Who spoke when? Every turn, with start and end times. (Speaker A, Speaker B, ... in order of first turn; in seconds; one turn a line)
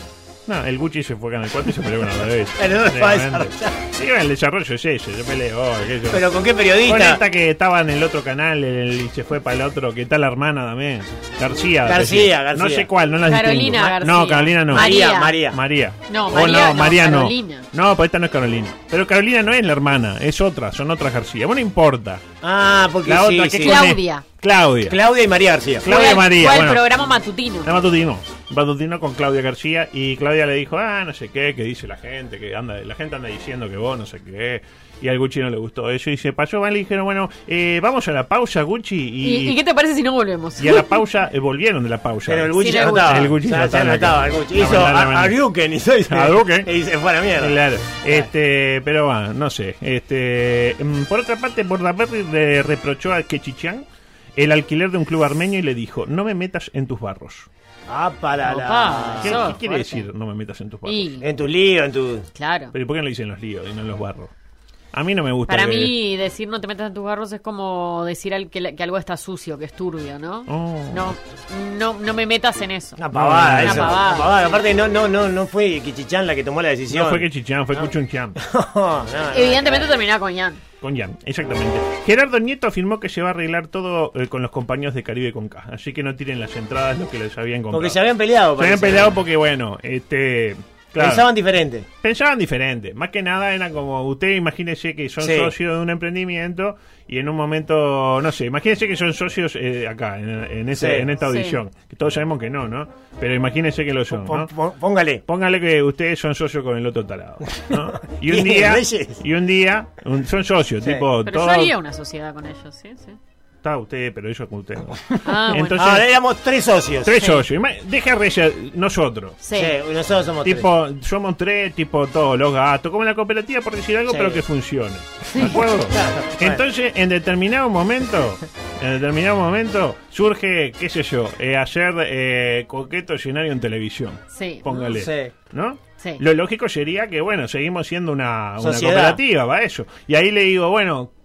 Speaker A: 0.5-6.3
Speaker B: 2.6-3.8
Speaker B: 6.1-7.2
Speaker A: 6.8-14.9
Speaker B: 11.8-12.9
Speaker C: 13.3-15.4
Speaker B: 14.7-15.6
Speaker A: 15.5-22.2
Speaker C: 16.1-17.6
Speaker B: 22.4-23.8
Speaker A: 23.0-25.0
Speaker C: 23.6-24.2
Speaker B: 24.9-25.8
Speaker A: 25.8-26.8
Speaker C: 25.8-27.7
Speaker A: 27.6-39.6
Speaker C: 39.2-40.9
Speaker A: 40.6-45.4
Speaker B: 42.2-48.3
Speaker C: 42.6-43.3
Speaker A: 46.1-46.7
Speaker A: 47.4-53.8
Speaker A: 54.4-57.5
Speaker B: 57.9-59.5
Speaker C: 58.4-60.1
Speaker A: 59.2-61.1
Speaker C: 60.8-61.3
Speaker B: 61.2-62.3
Speaker C: 62.3-62.7
Speaker A: 62.7-64.3
Speaker A: 64.9-65.9
Speaker C: 65.5-73.0
Speaker A: 70.5-71.1
Speaker B: 73.0-79.9
Speaker A: 73.1-74.0
Speaker C: 73.6-74.5
Speaker A: 76.9-78.4
Speaker C: 79.3-80.6
Speaker A: 80.8-88.0
Speaker B: 87.7-89.1
Speaker A: 88.6-91.3
Speaker B: 91.0-91.8
Speaker A: 92.0-104.5
Speaker B: 95.2-95.5
Speaker B: 100.7-101.1
Speaker C: 101.2-101.6
Speaker B: 104.1-105.2
Speaker A: 105.3-111.7
Speaker B: 108.2-109.2
Speaker C: 111.2-113.2
Speaker A: 113.6-116.1
Speaker C: 115.2-116.0
Speaker B: 115.8-117.3
Speaker A: 117.0-119.4
Speaker C: 119.4-119.7
Speaker B: 119.5-120.7
Speaker A: 120.4-141.1
Speaker B: 124.1-124.4
Speaker B: 125.9-126.6
Speaker C: 134.3-134.9
Speaker B: 134.9-135.3
Speaker B: 138.6-139.2